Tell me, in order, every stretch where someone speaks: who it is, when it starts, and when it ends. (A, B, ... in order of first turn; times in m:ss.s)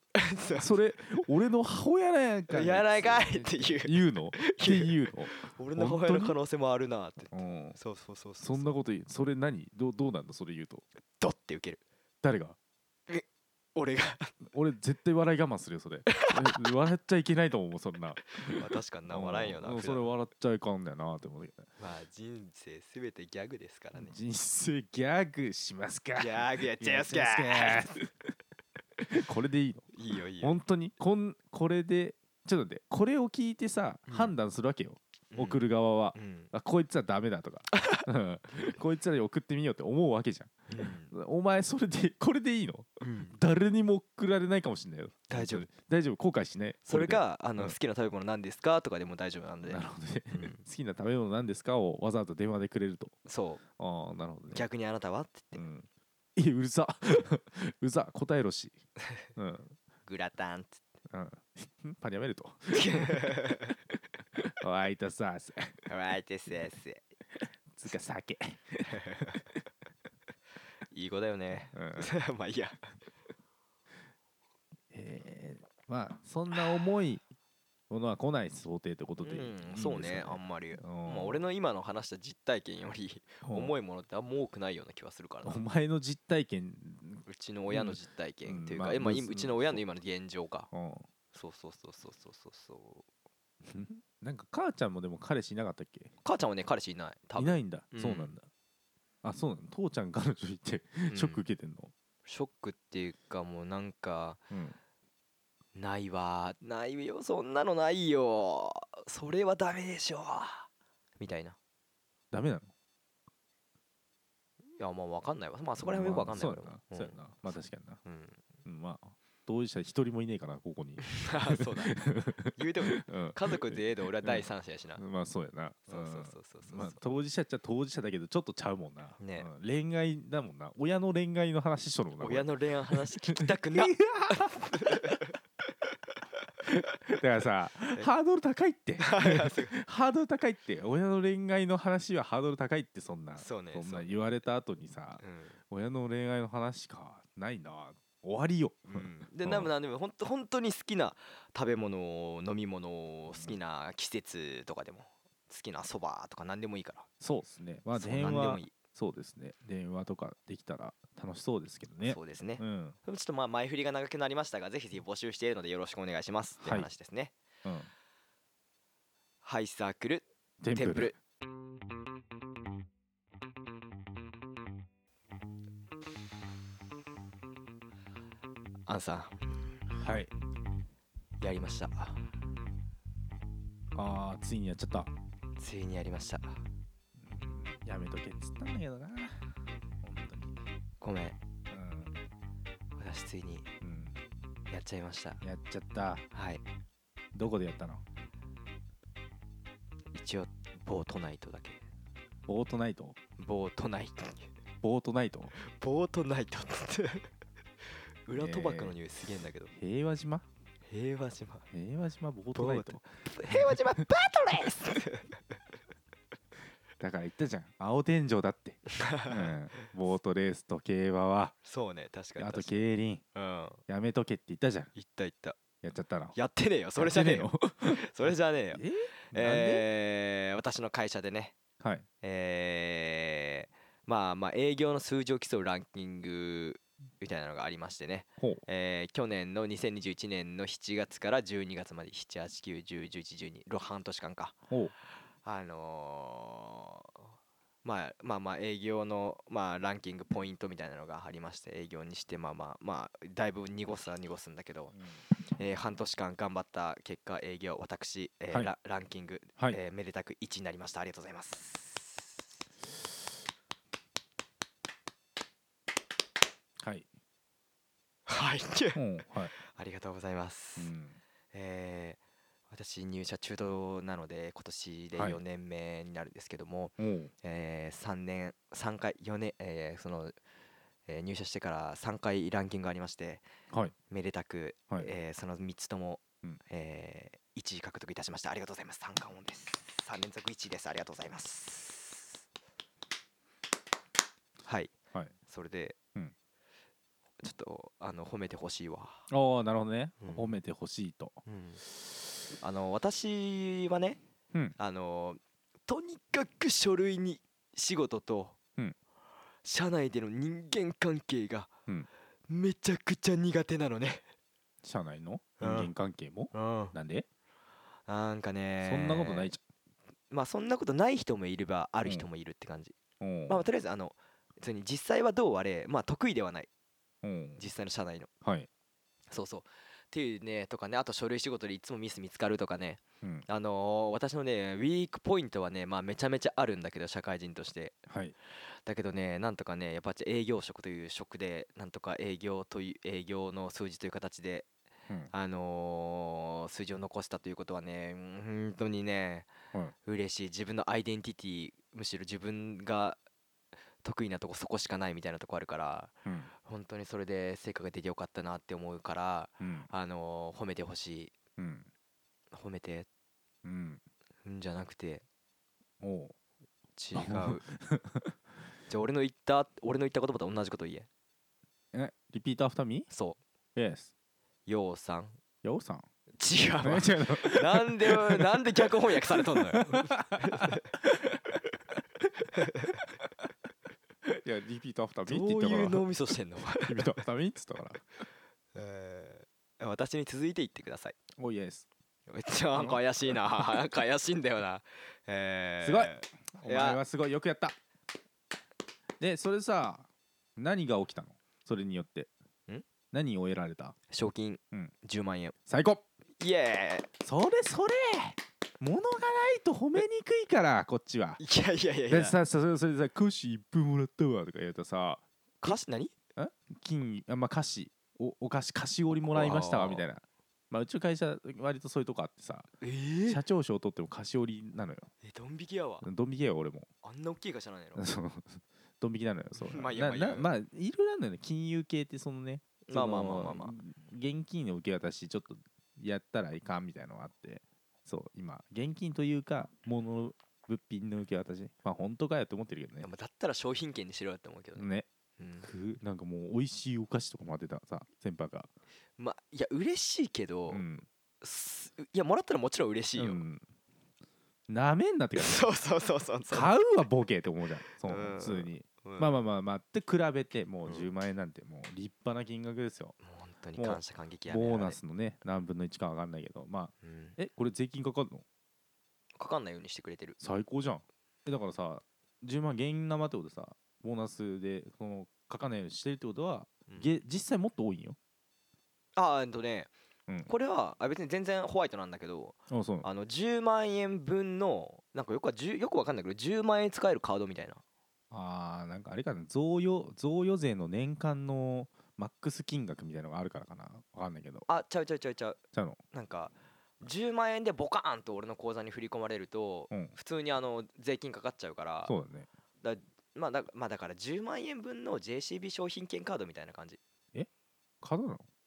0:00.1-0:01.1 A
0:00.6-0:06.4 B
0:02.5-0:08.7 A
0:07.3-0:07.8 B
0:08.4-0:10.8 B
0:11.2-0:11.8 A
0:12.2-0:12.6 B
0:13.1-0:14.3 A
0:14.4-0:21.7 B
0:16.1-0:16.6 A
0:18.5-0:20.1 A
0:21.8-0:24.1 A
0:24.0-0:28.0 B
0:26.2-0:28.0 A
0:29.0-0:47.8 B
0:29.9-0:30.6 A
0:34.1-0:34.3 A
0:35.3-0:36.5 A
0:37.8-0:38.0 A
0:40.7-0:41.1 A
0:43.0-0:43.4 A
0:45.3-0:45.7 A
0:46.8-0:50.6 A
0:49.6-0:53.2 B
0:53.2-0:53.6 A
0:53.8-0:54.6 B
0:54.5-0:55.6 A
0:55.5-0:58.8 B
0:59.3-0:59.7 B
1:00.0-1:00.8 A
1:01.1-1:03.2 B
1:02.7-1:03.7 A
1:04.6-1:05.8 B
1:05.9-1:07.0 A
1:07.7-1:09.0 B
1:08.9-1:09.4 A
1:10.9-1:12.8 A
1:11.5-1:12.1 B
1:14.9-1:17.2 B
1:17.9-1:21.4 B
1:19.2-1:25.6 A
1:23.4-1:23.7 B
1:25.4-1:29.8 B
1:27.2-1:30.7 A
1:30.7-1:31.0 B
1:31.3-1:33.0 A
1:33.6-1:36.1 B
1:36.2-1:38.4 A
1:37.4-1:38.5 B
1:39.2-1:41.9 B
1:41.1-1:41.4 A
1:42.2-1:44.4 A
1:44.5-1:44.8 B
1:45.8-1:51.6 A
1:52.3-1:52.7 B
1:54.8-1:57.2 A
1:55.8-1:58.0 B
1:58.0-1:58.4 A
1:58.6-2:15.2 B
2:01.1-2:01.9 A
2:02.6-2:05.0 A
2:05.9-2:07.0 A
2:09.2-2:09.5 A
2:12.2-2:15.4 A
2:16.6-2:29.7 B
2:19.0-2:19.7 A
2:23.4-2:24.1 A
2:25.2-2:25.6 A
2:28.9-2:37.1 A
2:33.3-2:33.6 B
2:37.2-2:43.0 B
2:37.9-2:38.7 A
2:42.0-2:47.3 A
2:46.6-2:46.9 B
2:47.6-2:47.9 B
2:49.4-2:51.1 A
2:50.6-2:51.1 B
2:58.9-2:59.4 A
2:59.9-3:00.3 B
3:01.4-3:02.2 A
3:03.9-3:05.1 B
3:05.6-3:06.6 A
3:07.2-3:09.4 B
3:10.0-3:10.6 B
3:11.0-3:11.4 A
3:11.7-3:12.1 B
3:13.0-3:13.7 A
3:13.8-3:14.2 B
3:14.7-3:15.4 A
3:15.4-3:16.2 B
3:16.3-3:16.6 A
3:17.3-3:18.0 B
3:20.1-3:21.8 A
3:22.5-3:23.2 B
3:23.4-3:24.5 A
3:24.8-3:25.5 B
3:25.6-3:27.3 A
3:28.2-3:29.7 A
3:28.3-3:29.0 B
3:29.7-3:30.4 B
3:30.9-3:31.7 A
3:31.7-3:34.0 B
3:32.5-3:35.6 A
3:37.0-3:41.5 B
3:38.9-3:39.8 A
3:41.6-3:42.8 A
3:42.4-3:43.2 B
3:43.3-3:43.8 A
3:43.9-3:44.9 B
3:44.9-3:45.6 A
3:45.8-3:46.4 B
3:46.3-3:51.5 A
3:47.0-3:48.0 B
3:48.7-3:49.9 B
3:51.8-3:52.0 B
3:52.2-4:04.6 A
4:05.4-4:07.0 A
4:07.8-4:15.0 A
4:15.6-4:22.3 A
4:26.8-4:27.1 B
4:28.3-4:29.0 A
4:28.9-4:29.5 B
4:29.5-4:30.9 A
4:30.8-4:31.2 B
4:31.5-4:32.2 A
4:32.7-4:40.4 A
4:37.0-4:37.3 B
4:41.1-4:43.4 A
4:44.1-4:52.4 A
4:54.6-4:54.9 A
4:55.5-4:56.0 A
4:57.4-4:59.2 A
4:59.3-5:01.4 B
5:00.2-5:00.5 A
5:01.4-5:01.8 A
5:02.6-5:04.2 A
5:04.8-5:08.6 A
5:09.6-5:11.7 A
5:12.5-5:14.2 A
5:14.8-5:17.2 B
5:15.6-5:15.9 A
5:16.5-5:17.0 A
5:18.1-5:19.5 A
5:18.8-5:19.6 B
5:20.3-5:23.0 A
5:23.2-5:23.6 B
5:23.5-5:26.7 A
5:27.2-5:27.6 B
5:27.6-5:28.3 A
5:28.4-5:28.7 B
5:29.3-5:38.0 A
5:38.1-5:38.3 B
5:38.8-5:44.7 A
5:45.3-5:49.5 A
5:50.0-5:53.2 A
5:54.0-6:01.4 A
5:59.6-5:59.9 B
6:01.6-6:01.9 B
6:02.5-6:03.1 A
6:03.6-6:04.0 B
6:04.4-6:05.2 A
6:06.0-6:06.3 B
6:07.0-6:07.6 A
6:07.1-6:08.3 B
6:08.9-6:11.1 A
6:11.9-6:13.1 B
6:13.1-6:13.4 A
6:13.7-6:14.1 B
6:14.6-6:15.4 A
6:15.6-6:16.0 B
6:16.4-6:20.9 A
6:16.8-6:18.6 B
6:19.3-6:21.6 B
6:22.5-6:23.0 A
6:24.2-6:26.1 B
6:25.2-6:27.2 A
6:26.7-6:28.0 B
6:28.7-6:31.2 A
6:31.4-6:31.9 B
6:32.3-6:37.0 A
6:32.7-6:33.0 B
6:35.8-6:37.8 B
6:39.2-6:42.3 B
6:43.1-6:44.0 B
6:44.1-6:45.5 A
6:45.7-6:46.0 B
6:46.4-6:47.1 A
6:47.2-6:51.4 B
6:51.4-6:52.4 A
6:52.1-6:55.8 B
6:55.6-6:56.1 A
6:56.4-7:02.7 B
6:59.3-7:00.0 A
7:02.8-7:03.4 A
7:03.3-7:05.1 B
7:05.2-7:06.0 A
7:06.0-7:06.9 B
7:07.0-7:08.0 A
7:08.0-7:23.1 B
7:09.6-7:10.5 A
7:12.9-7:13.7 A
7:23.0-7:25.7 A
7:24.8-7:25.1 B
7:25.6-7:28.7 B
7:29.2-7:30.8 A
7:30.7-7:31.0 B
7:31.4-7:33.4 A
7:33.2-7:33.6 B
7:34.7-7:35.7 B
7:35.4-7:36.8 A
7:36.5-7:43.2 B
7:38.0-7:39.3 A
7:43.2-7:45.0 A
7:43.8-7:48.4 B
7:47.0-7:47.4 A
7:49.4-7:50.4 A
7:50.4-7:58.2 B
7:59.2-7:59.9 A
8:00.4-8:07.8 A
8:02.7-8:03.1 B
8:08.3-8:14.7 B
8:14.7-8:15.6 A
8:15.7-8:16.0 B
8:16.1-8:22.1 A
8:22.0-8:22.5 B
8:22.8-8:27.0 A
8:28.0-8:28.4 B